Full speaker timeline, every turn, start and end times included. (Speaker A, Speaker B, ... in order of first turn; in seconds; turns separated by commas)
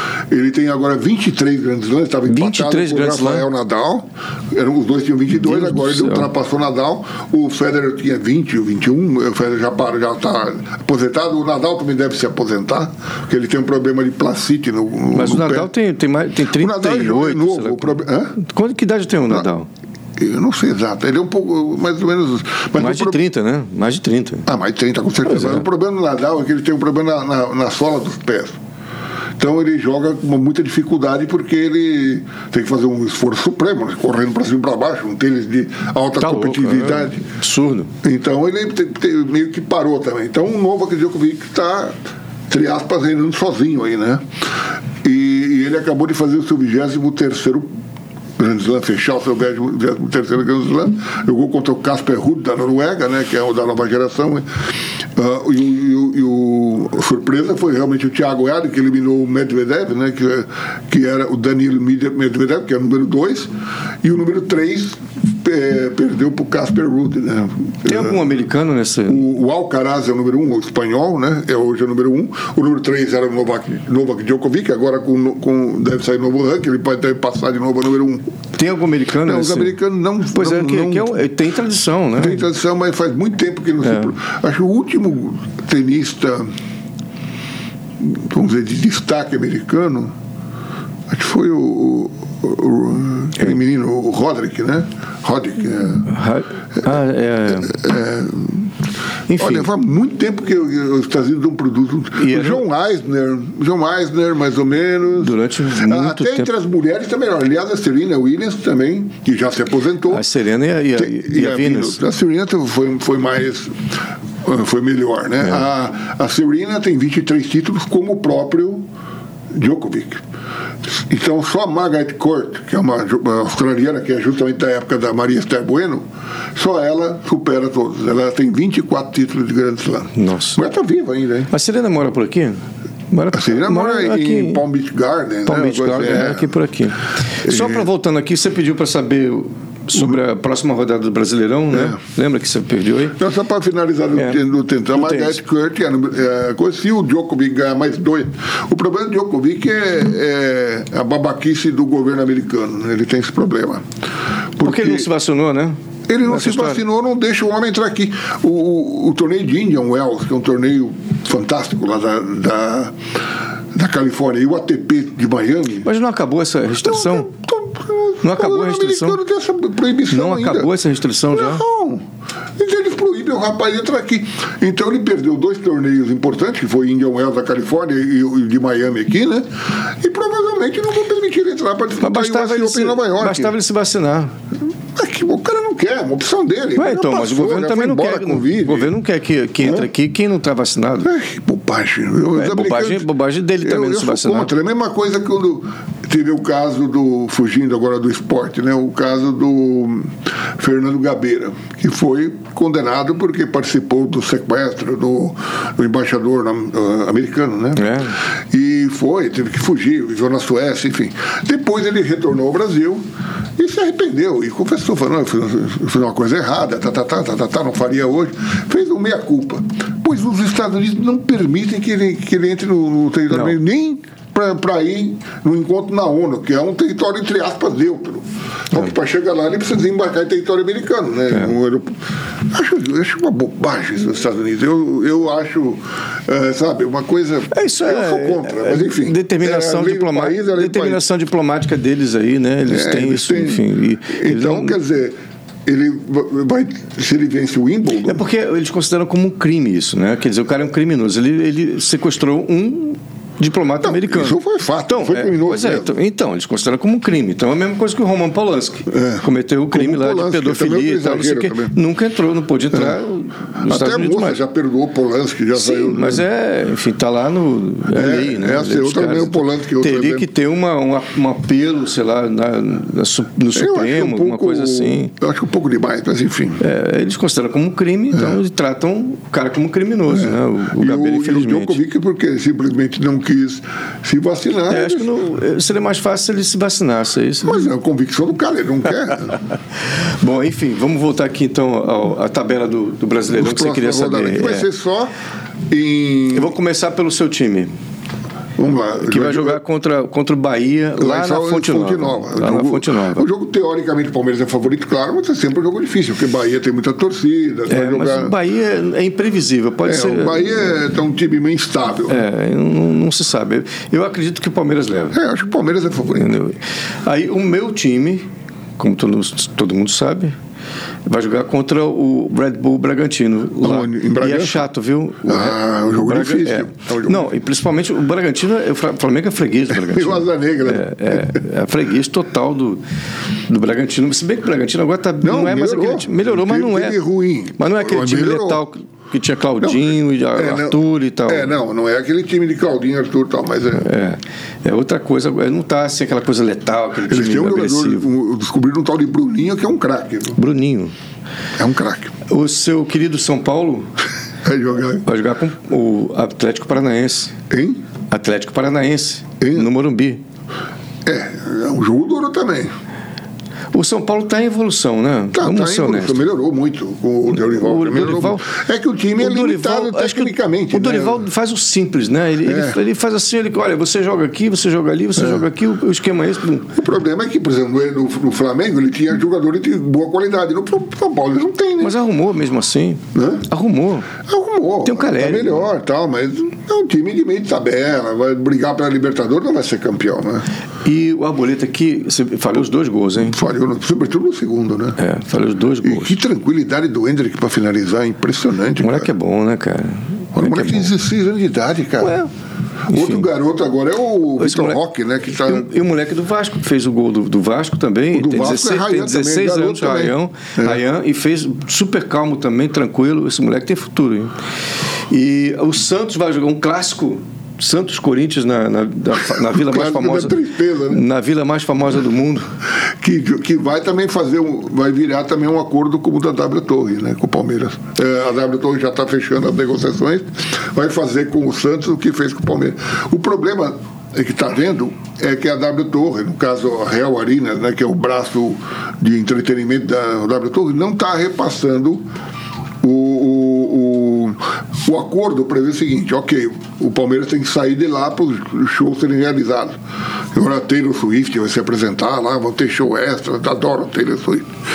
Speaker A: 0.3-15.7, Speaker B: 2.3-3.5, Speaker B: 5.4-6.3, Speaker B: 15.1-19.7, Speaker A: 16.5-18.4, Speaker A: 20.2-23.2, Speaker B: 22.8-24.5, Speaker A: 24.4-28.6, Speaker B: 25.2-25.6, Speaker A: 29.4-37.2, Speaker B: 36.2-37.9, Speaker A: 38.0-42.0, Speaker A: 42.5-44.2, Speaker A: 45.0-47.7, Speaker A: 48.4-54.5, Speaker A: 55.1-63.5, Speaker A: 64.0-68.2, Speaker B: 67.8-69.2, Speaker A: 69.1-78.3, Speaker B: 78.5-82.5, Speaker A: 79.2-81.2, Speaker A: 82.2-86.5, Speaker B: 83.8-84.1, Speaker A: 88.0-90.1, Speaker A: 91.1-96.1, Speaker B: 96.0-97.8, Speaker A: 97.6-98.7, Speaker B: 99.3-99.7, Speaker A: 99.3-110.2, Speaker B: 102.2-102.6, Speaker B: 105.2-106.5, Speaker B: 110.1-112.0, Speaker A: 111.0-118.8, Speaker A: 119.5-120.2, Speaker A: 120.8-131.5, Speaker B: 130.1-130.6, Speaker B: 131.5-134.6, Speaker A: 133.3-136.5, Speaker B: 135.4-143.2, Speaker A: 137.4-137.8, Speaker A: 141.7-142.0, Speaker A: 143.2-153.8, Speaker B: 144.9-145.4, Speaker A: 154.6-155.1, Speaker B: 154.6-156.8, Speaker A: 156.1-163.0, Speaker A: 163.7-165.9, Speaker B: 165.8-167.3, Speaker A: 166.8-170.7, Speaker B: 168.2-169.2, Speaker B: 170.1-171.6, Speaker A: 171.3-172.0, Speaker A: 172.6-183.5, Speaker B: 182.0-184.3, Speaker A: 184.9-188.9, Speaker B: 186.8-191.1, Speaker A: 189.6-189.9, Speaker A: 191.0-193.1, Speaker B: 192.3-194.5, Speaker A: 193.6-208.0, Speaker B: 207.8-208.2, Speaker A: 208.5-213.0, Speaker A: 213.6-241.0, Speaker B: 223.3-223.6, Speaker B: 237.5-244.8, Speaker A: 242.7-248.2, Speaker B: 248.0-264.4, Speaker A: 253.8-255.9, Speaker A: 258.9-261.7, Speaker A: 263.6-266.2, Speaker B: 265.5-275.1, Speaker A: 267.9-270.3, Speaker A: 273.5-276.6, Speaker B: 276.6-281.8, Speaker A: 280.1-285.1, Speaker B: 284.7-287.6, Speaker A: 287.4-289.4, Speaker B: 290.0-294.7, Speaker A: 293.3-295.1, Speaker A: 295.7-296.5, Speaker B: 296.3-297.7, Speaker A: 298.6-299.6, Speaker B: 299.0-303.2, Speaker A: 301.0-308.3, Speaker B: 307.7-310.5, Speaker A: 309.8-312.2, Speaker B: 312.1-315.2, Speaker A: 315.1-316.4, Speaker B: 316.1-318.2, Speaker B: 318.8-320.3, Speaker B: 321.1-332.8, Speaker A: 323.6-324.7, Speaker A: 325.2-327.3, Speaker A: 329.7-331.4, Speaker B: 333.5-337.0, Speaker A: 335.2-338.6, Speaker B: 337.6-341.5, Speaker A: 339.6-343.9, Speaker B: 343.8-348.1, Speaker A: 347.1-350.4, Speaker B: 350.4-350.9, Speaker A: 351.6-352.1, Speaker B: 352.3-353.9, Speaker A: 354.4-355.1, Speaker B: 355.0-357.3, Speaker A: 357.5-357.8, Speaker B: 358.1-360.2, Speaker A: 359.4-359.7, Speaker A: 361.0-362.7, Speaker B: 363.7-366.2, Speaker A: 365.3-371.2, Speaker B: 367.3-368.5, Speaker B: 369.2-376.7, Speaker A: 372.4-372.8, Speaker A: 375.2-375.4, Speaker A: 376.8-381.9, Speaker B: 381.8-384.1, Speaker A: 383.1-383.4, Speaker A: 384.2-390.4, Speaker B: 384.8-385.7, Speaker B: 390.8-393.4, Speaker A: 393.2-395.0, Speaker B: 395.0-396.1, Speaker A: 395.8-399.1, Speaker B: 398.8-400.9, Speaker A: 400.3-402.1, Speaker B: 402.0-402.3, Speaker B: 402.9-403.2, Speaker A: 402.9-405.7, Speaker B: 404.4-404.8, Speaker B: 405.4-414.3, Speaker A: 408.1-410.8, Speaker B: 415.1-420.4, Speaker A: 419.3-421.0, Speaker B: 420.9-422.5, Speaker A: 423.0-442.0, Speaker A: 442.8-449.8, Speaker A: 450.3-454.5